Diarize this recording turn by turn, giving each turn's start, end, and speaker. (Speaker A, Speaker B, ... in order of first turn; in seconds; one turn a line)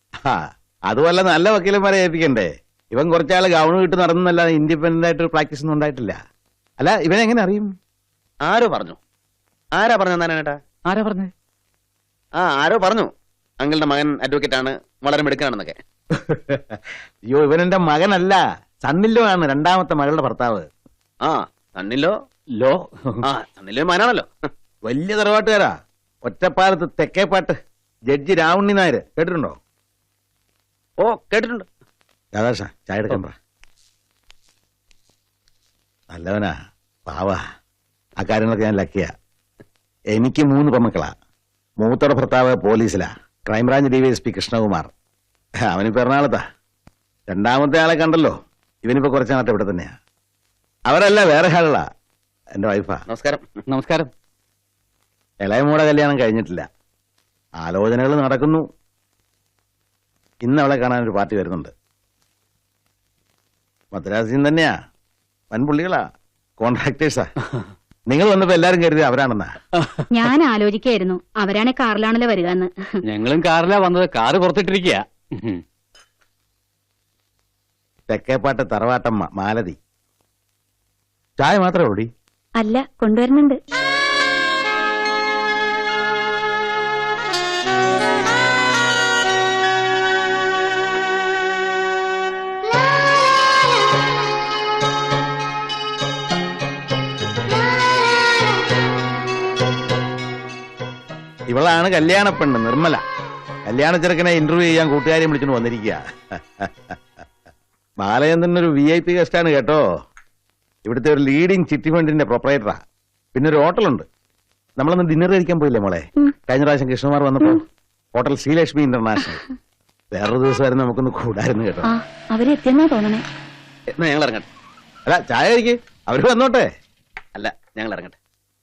Speaker A: 0.2-6.2
Speaker A: 6.8-7.7
Speaker B: 8.4-9.0
Speaker B: 9.8-10.6
Speaker C: 10.8-11.3
Speaker B: 12.4-13.1
Speaker B: 13.6-15.8
Speaker A: 16.1-20.7
Speaker B: 21.2-22.1
Speaker C: 22.6-23.2
Speaker B: 23.2-24.3
Speaker A: 24.8-25.7
Speaker A: 26.2-27.6
Speaker A: 28.1-29.6
Speaker B: 31.0-31.7
Speaker A: 32.3-33.3
Speaker A: 36.1-36.5
Speaker A: 37.0-37.4
Speaker A: 38.2-39.1
Speaker A: 40.1-41.1
Speaker A: 41.8-44.9
Speaker A: 45.7-46.4
Speaker A: 47.3-50.0
Speaker A: 50.9-51.8
Speaker A: 52.6-53.0
Speaker B: 53.1-53.4
Speaker C: 53.7-54.1
Speaker A: 55.4-56.6
Speaker A: 57.6-58.6
Speaker A: 60.4-61.7
Speaker A: 63.9-64.7
Speaker A: 65.5-66.0
Speaker A: 66.6-67.3
Speaker A: 68.1-69.5
Speaker C: 69.8-70.0
Speaker D: 70.1-72.7
Speaker C: 73.1-75.6
Speaker A: 78.1-79.8
Speaker A: 81.4-82.1
Speaker D: 82.6-83.6
Speaker A: 101.5-103.0
Speaker A: 103.7-107.0
Speaker A: 108.0-109.8
Speaker A: 110.8-112.8
Speaker A: 113.3-114.0
Speaker A: 114.8-117.6
Speaker A: 118.1-119.4
Speaker A: 120.1-121.9
Speaker D: 121.8-123.2
Speaker B: 124.0-124.5
Speaker A: 125.0-126.7
Speaker B: 127.3-128.2